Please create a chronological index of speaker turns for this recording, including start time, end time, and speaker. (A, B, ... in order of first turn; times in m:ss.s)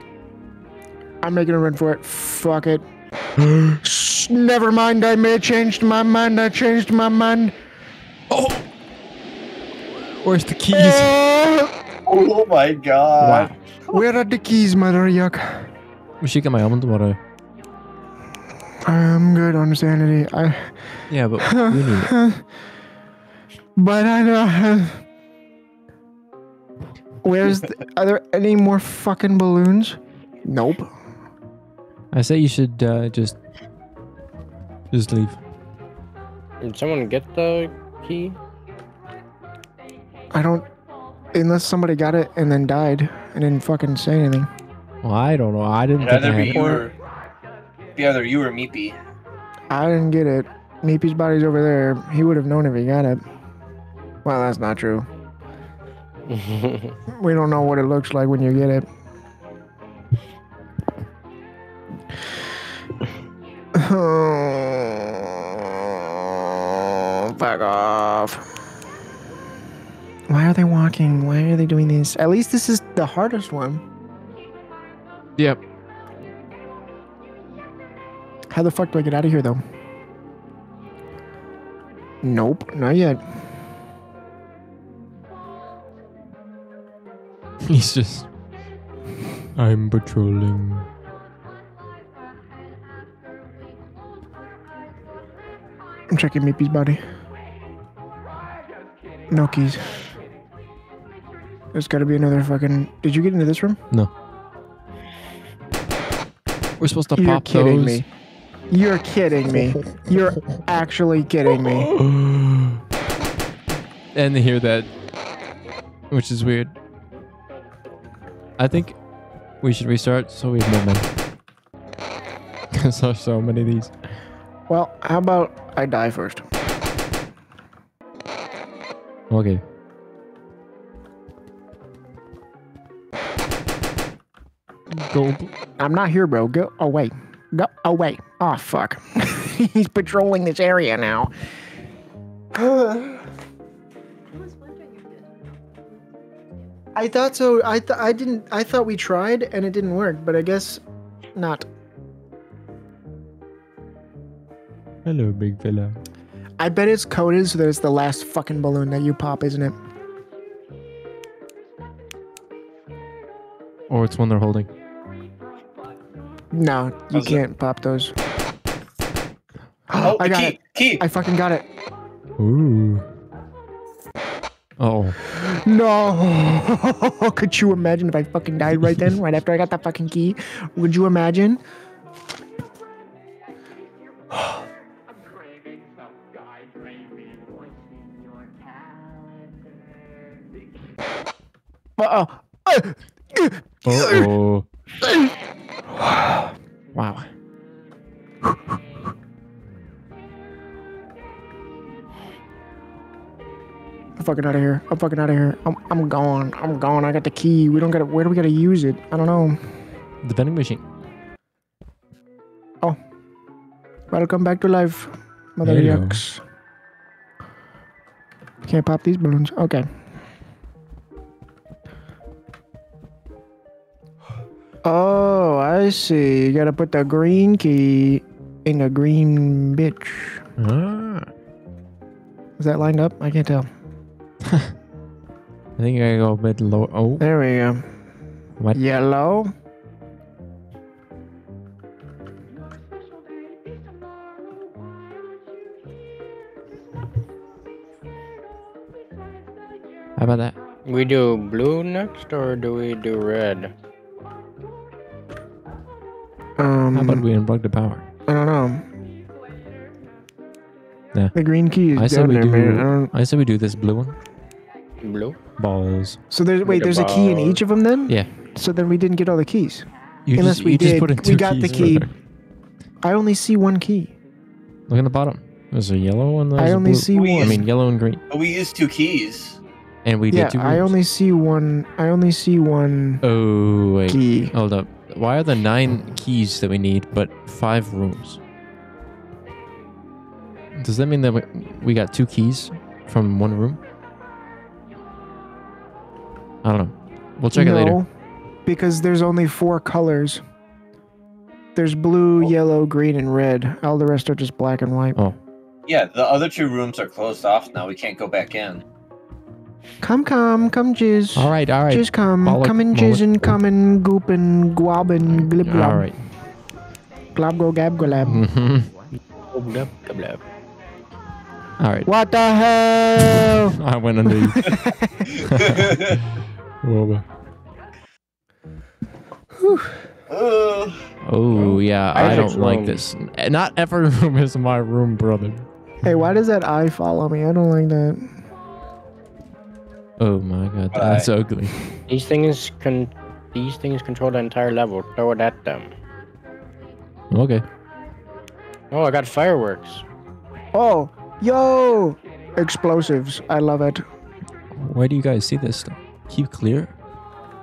0:01.2-0:02.8 A
0:03.6-0:07.5 A
0:08.3-0:08.6 B
0:10.0-0:11.1 B
0:10.7-0:11.7 A
0:12.0-0:14.0 C
0:13.2-0:13.6 B
0:13.9-0:15.7 A
0:16.2-0:17.2 B
0:18.8-0:22.4 A
0:21.1-0:22.1 B
0:23.8-0:25.0 A
0:27.2-0:30.9 A
0:32.1-0:33.4 B
0:34.9-0:35.4 B
0:36.6-0:38.4 D
0:40.3-0:40.7 A
0:41.3-0:44.5 A
0:45.0-0:46.7 B
0:46.0-0:46.9 C
0:46.5-0:46.8 A
0:48.0-0:49.0 C
0:49.7-0:53.2 A
0:54.2-0:55.1 A
0:56.3-0:57.0 D
0:57.1-0:58.9 A
1:03.7-1:08.5 A
1:10.3-1:13.8 A
1:18.5-1:19.6 A
1:22.2-1:23.2 A
1:27.6-1:28.3 B
1:29.5-1:30.9 B
1:36.1-1:37.0 A
1:39.3-1:40.1 A
1:41.7-1:43.8 A
1:46.8-1:48.0 B
1:47.2-1:48.1 A
1:48.7-1:51.9 A
1:51.5-1:52.8 B
1:54.1-1:54.9 B
1:56.1-1:56.8 B
1:58.6-1:59.0 B
1:59.6-2:01.1 B
2:02.7-2:04.1 B
2:04.7-2:06.4 A
2:09.3-2:09.6 B
2:14.9-2:15.5 B
2:15.8-2:21.3 A
2:22.5-2:23.2 A
2:26.9-2:30.8 A
2:31.3-2:31.6 A
2:35.0-2:36.0 B
2:36.6-2:39.7 A
2:43.9-2:44.7 B
2:46.5-2:48.1 A
2:47.1-2:47.4 C
2:49.9-2:51.6 A
2:49.9-2:51.0 C
2:52.4-2:53.1 B
2:54.8-2:55.2 B
2:55.3-3:01.6 A
3:12.0-3:14.3 A
3:13.8-3:14.7 B
3:15.9-3:16.5 A
3:16.9-3:17.3 B
3:24.2-3:29.7 A
3:30.2-3:30.8 B
3:34.1-3:36.4 A
3:35.6-3:36.2 B
3:38.6-3:39.9 A
3:44.8-3:50.4 A
3:50.6-3:51.3 B
3:52.6-3:53.7 A
3:54.5-3:54.7 B
3:55.8-3:57.2 B
3:57.2-3:57.9 A
3:58.7-3:59.5 A
4:10.2-4:10.6 B
4:10.8-4:13.7 D
4:16.6-4:17.3 A
4:16.9-4:18.0 B
4:18.3-4:18.8 A
4:21.3-4:23.1 A
4:21.9-4:24.2 B
4:25.0-4:25.4 D
4:25.6-4:26.2 B
4:26.3-4:32.1 A
4:26.6-4:27.6 D
4:30.2-4:32.1 B
4:31.7-4:31.9 D
4:33.0-4:34.1 A
4:34.9-4:38.2 B
4:36.6-4:37.6 A
4:37.1-4:37.7 C
4:38.3-4:39.6 C
4:40.0-4:40.9 B
4:40.3-4:43.2 A
4:43.2-4:48.4 B
4:44.1-4:44.5 A
4:50.7-4:53.8 B
4:56.6-4:58.0 B
4:57.5-4:58.1 A
4:58.6-5:00.4 A
5:01.7-5:05.2 A
5:05.9-5:08.8 C
5:10.0-5:16.1 A
5:11.3-5:13.6 B
5:15.3-5:16.2 B
5:17.3-5:18.4 A
5:18.2-5:18.9 B
5:19.5-5:20.4 D
5:21.8-5:22.1 B
5:22.0-5:23.8 A
5:23.3-5:24.8 B
5:24.3-5:25.3 A
5:25.4-5:26.2 C
5:25.5-5:26.2 B
5:26.8-5:27.2 B
5:29.6-5:30.0 A
5:30.3-5:31.0 C
5:31.2-5:35.7 B
5:31.5-5:32.5 A
5:32.1-5:33.0 D
5:36.0-5:38.4 A
5:40.2-5:41.7 B
5:40.9-5:41.3 C
5:42.1-5:45.9 D
5:47.3-5:47.6 B
5:48.9-5:50.0 D
5:50.7-5:54.0 A
5:54.7-5:56.9 B